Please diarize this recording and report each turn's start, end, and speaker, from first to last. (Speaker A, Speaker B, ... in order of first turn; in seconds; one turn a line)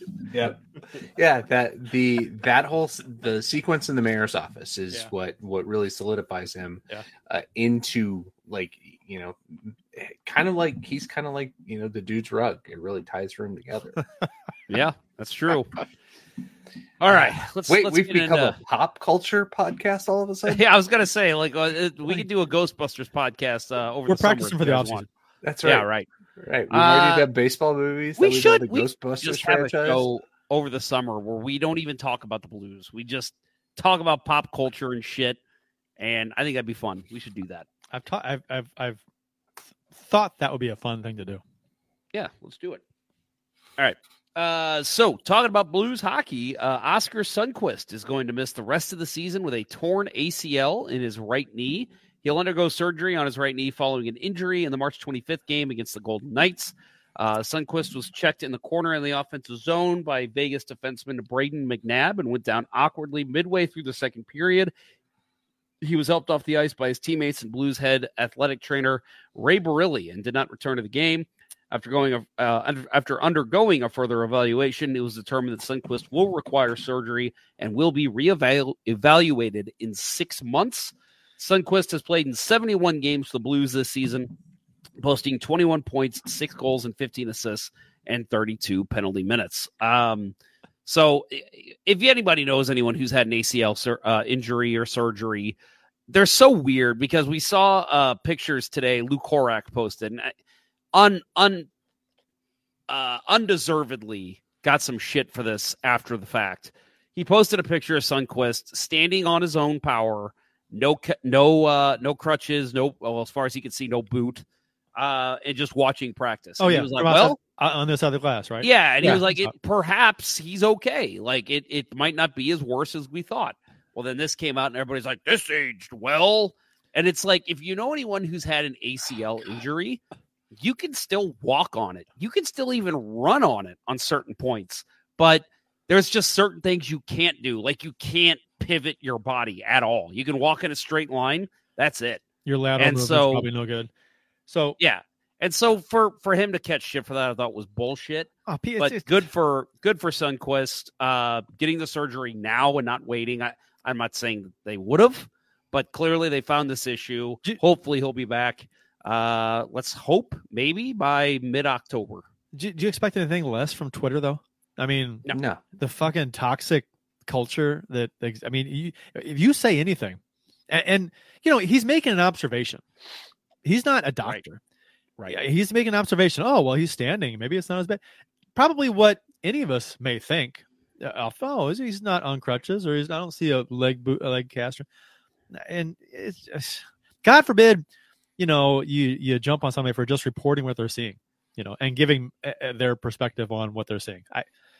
Speaker A: 0.3-14.0
Speaker B: 14.7-15.7
Speaker B: 17.0-18.6
Speaker A: 17.1-20.6
Speaker B: 20.4-25.0
Speaker C: 24.1-25.1
Speaker A: 25.4-25.9
Speaker B: 25.6-26.1
Speaker A: 26.4-30.1
Speaker B: 26.7-27.3
Speaker B: 28.2-35.4
Speaker B: 36.0-37.7
Speaker C: 37.9-39.0
Speaker C: 39.9-41.4
Speaker B: 42.1-42.8
Speaker B: 43.8-64.7
Speaker B: 65.8-84.3
Speaker B: 85.0-95.5
Speaker B: 96.1-100.3
Speaker B: 100.9-101.7
Speaker B: 102.9-114.4
Speaker B: 115.0-117.4
Speaker C: 116.6-119.5
Speaker B: 118.6-130.0
Speaker B: 130.5-142.2
Speaker C: 142.4-143.9
Speaker B: 142.8-143.5
Speaker C: 144.5-144.8
Speaker B: 144.8-162.2
Speaker C: 148.5-149.1
Speaker C: 162.5-165.2
Speaker A: 165.3-165.6
Speaker C: 165.8-172.8
Speaker C: 173.6-174.6
Speaker C: 175.3-178.0
Speaker C: 178.6-184.8
Speaker C: 185.5-187.8
Speaker C: 188.4-194.4